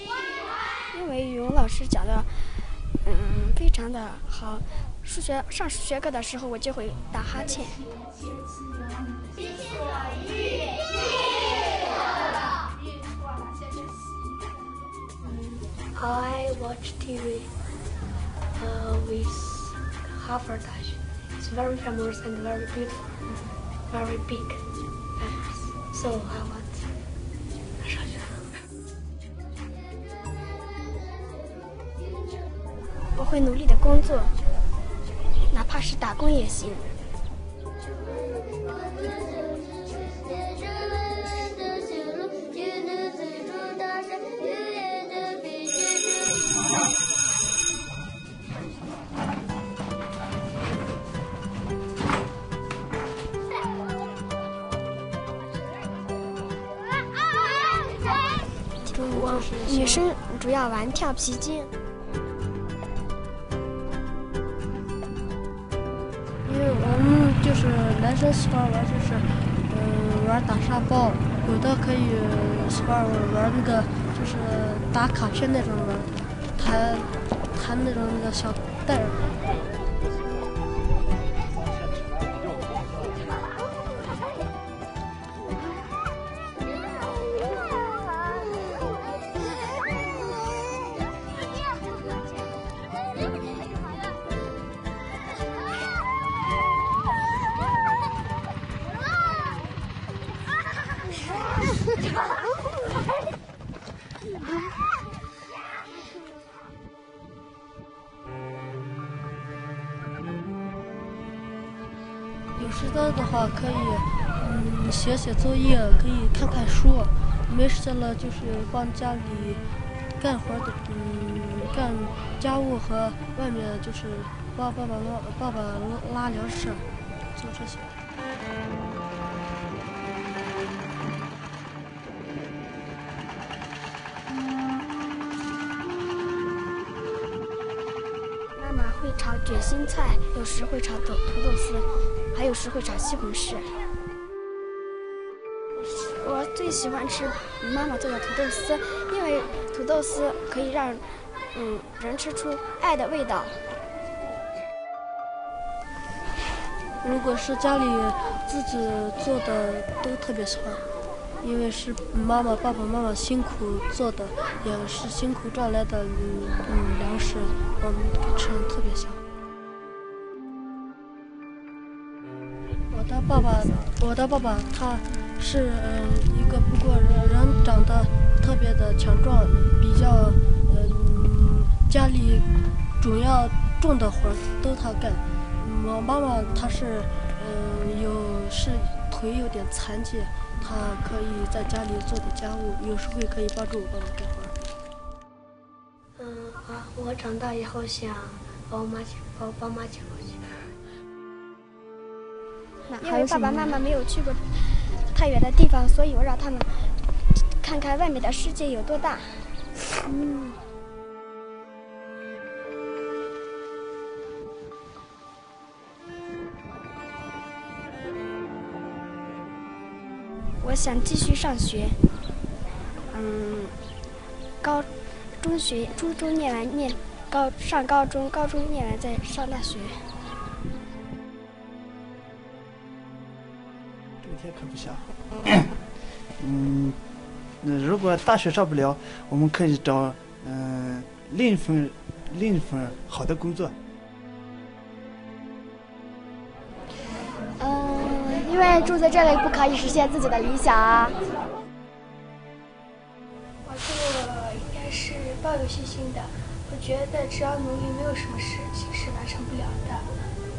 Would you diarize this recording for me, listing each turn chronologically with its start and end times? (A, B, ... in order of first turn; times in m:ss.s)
0:00.9-0:07.9 A
0:15.2-0:17.5 B
0:18.6-0:23.4 B
0:23.9-0:24.6 B
0:25.2-0:26.9 B
0:27.8-0:28.5 B
0:33.2-0:34.4 A
0:35.5-0:36.9 A
0:58.8-1:00.0 C
0:58.9-1:01.7 A
1:06.4-1:19.3 C
1:52.5-1:59.6 C
2:00.2-2:07.9 C
2:18.6-2:23.8 A
2:25.8-2:33.7 A
2:37.0-2:40.9 C
2:41.4-2:49.2 C
2:52.9-3:02.5 C
3:03.0-3:14.5 C
3:16.2-3:20.7 B
3:22.9-3:27.0 A
3:23.0-3:23.6 C
3:27.6-3:29.6 A
3:40.6-3:42.0 A
3:43.1-3:43.7 A
3:44.6-3:44.9 A
3:45.4-3:50.1 A
3:54.2-3:55.7 D
3:56.4-3:57.0 D
3:57.6-4:03.8 D
4:07.6-4:11.2 A
4:13.7-4:20.1 B